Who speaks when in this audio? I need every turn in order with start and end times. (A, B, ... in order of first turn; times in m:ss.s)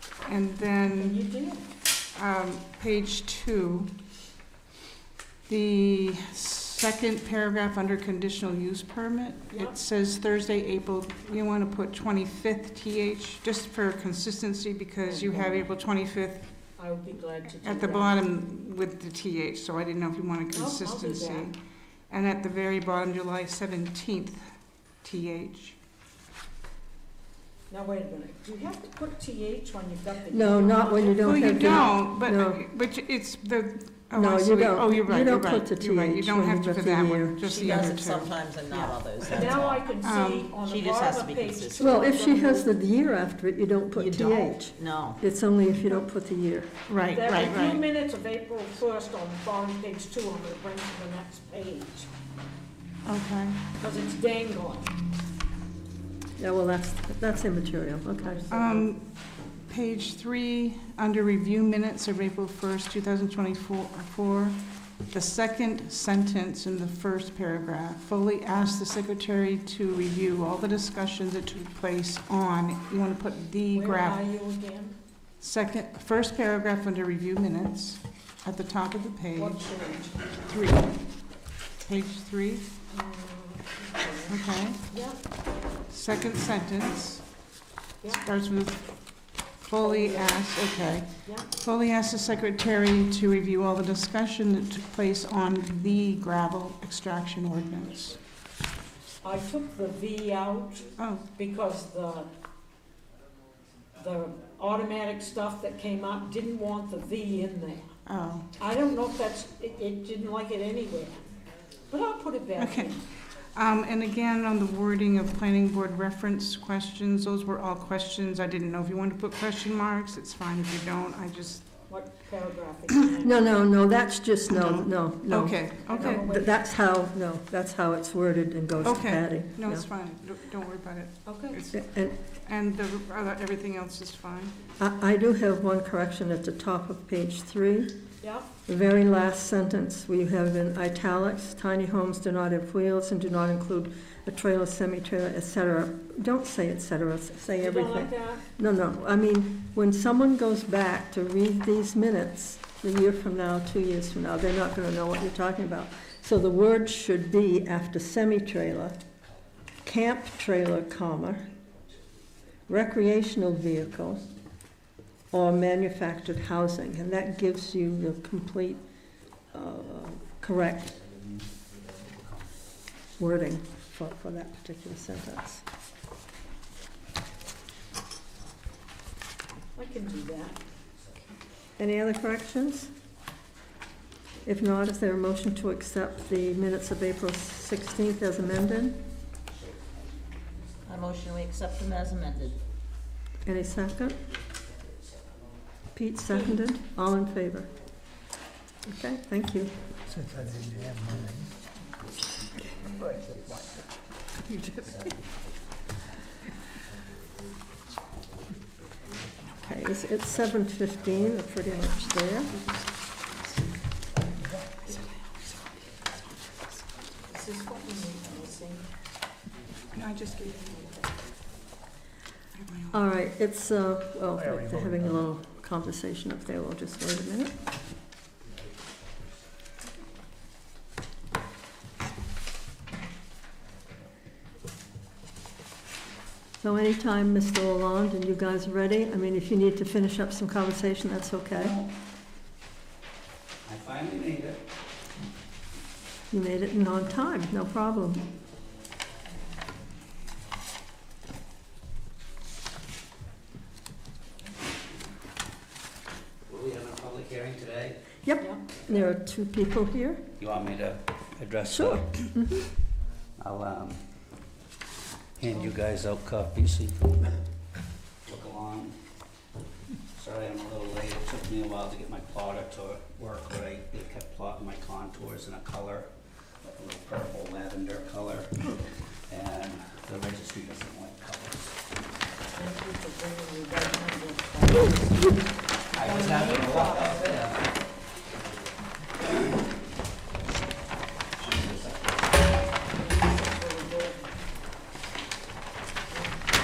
0:00.2-0:01.2 A
0:00.9-0:01.7 B
0:02.2-0:03.9 A
0:05.5-0:16.5 A
0:09.5-0:09.8 B
0:15.0-0:15.7 B
0:16.8-0:18.2 B
0:17.6-0:21.6 A
0:20.5-0:21.5 B
0:22.1-0:24.4 A
0:25.0-0:25.8 A
0:27.7-0:31.9 B
0:30.3-0:32.6 C
0:31.2-0:38.3 A
0:34.1-0:37.4 C
0:37.4-0:39.9 D
0:39.2-0:42.7 B
0:40.0-0:40.5 A
0:40.6-0:42.0 D
0:41.8-0:46.7 C
0:43.9-0:45.2 D
0:46.9-0:47.8 A
0:47.1-0:52.1 B
0:53.0-0:53.6 A
0:53.8-0:54.9 B
0:56.4-0:58.8 C
0:58.2-0:58.8 B
0:58.5-0:59.0 A
0:59.6-1:04.6 A
1:05.1-1:14.2 A
1:13.7-1:15.0 B
1:15.4-1:19.6 A
1:19.4-1:20.2 B
1:20.4-1:20.9 A
1:21.8-1:22.7 A
1:22.9-1:25.2 B
1:24.3-1:24.8 A
1:25.9-1:27.2 A
1:28.1-1:28.8 A
1:29.6-1:38.2 A
1:29.8-1:30.4 B
1:39.2-1:42.3 B
1:41.0-1:41.2 A
1:44.0-1:47.9 B
1:48.0-1:48.5 A
1:48.6-1:51.2 B
1:51.9-1:53.0 B
1:52.6-1:52.9 A
1:53.5-2:01.7 A
2:01.9-2:03.5 B
2:03.2-2:09.8 C
2:04.5-2:06.2 A
2:05.9-2:06.5 B
2:08.8-2:11.8 A
2:11.2-2:11.6 B
2:11.7-2:12.2 C
2:12.4-2:14.5 A
2:14.8-2:18.0 C
2:18.2-2:18.5 B
2:18.7-2:39.0 C
2:27.6-2:28.4 B
2:39.8-2:41.4 C
2:42.7-2:44.2 C
2:45.3-2:48.8 C
2:49.5-2:51.0 C
2:53.2-2:55.6 C
2:59.8-3:00.6 B
3:01.8-3:02.9 C
3:04.4-3:09.0 C
3:09.7-3:10.4 E
3:10.8-3:12.6 D
3:13.4-3:14.2 C
3:15.9-3:17.7 C
3:16.3-3:16.6 B
3:18.9-3:19.7 C
3:20.1-3:21.5 F
3:23.2-3:23.8 F
3:24.8-3:25.1 E
3:29.6-3:32.5 C
3:32.0-3:33.8 A
3:34.8-3:36.8 A
3:37.3-3:38.9 B
3:39.9-3:40.9 A
3:40.7-3:41.0 B
3:42.6-3:43.0 A
3:42.9-3:47.5 C
3:44.4-3:45.2 F
3:56.6-4:01.8 C
4:01.5-4:01.9 E
4:03.6-4:04.6 E
4:06.3-4:08.2 C
4:16.5-4:18.0 E
4:18.2-4:20.2 C
4:20.4-4:22.1 E
4:21.7-4:22.7 C
4:23.4-4:24.0 E
4:25.4-4:27.3 E
4:28.2-4:29.0 E
4:30.1-4:36.1 E
4:36.6-4:38.8 E
4:39.3-4:41.8 E
4:42.5-4:45.4 B
4:45.9-4:47.7 E
4:45.9-4:47.4 B
4:51.4-4:52.2 E
4:52.9-4:54.3 B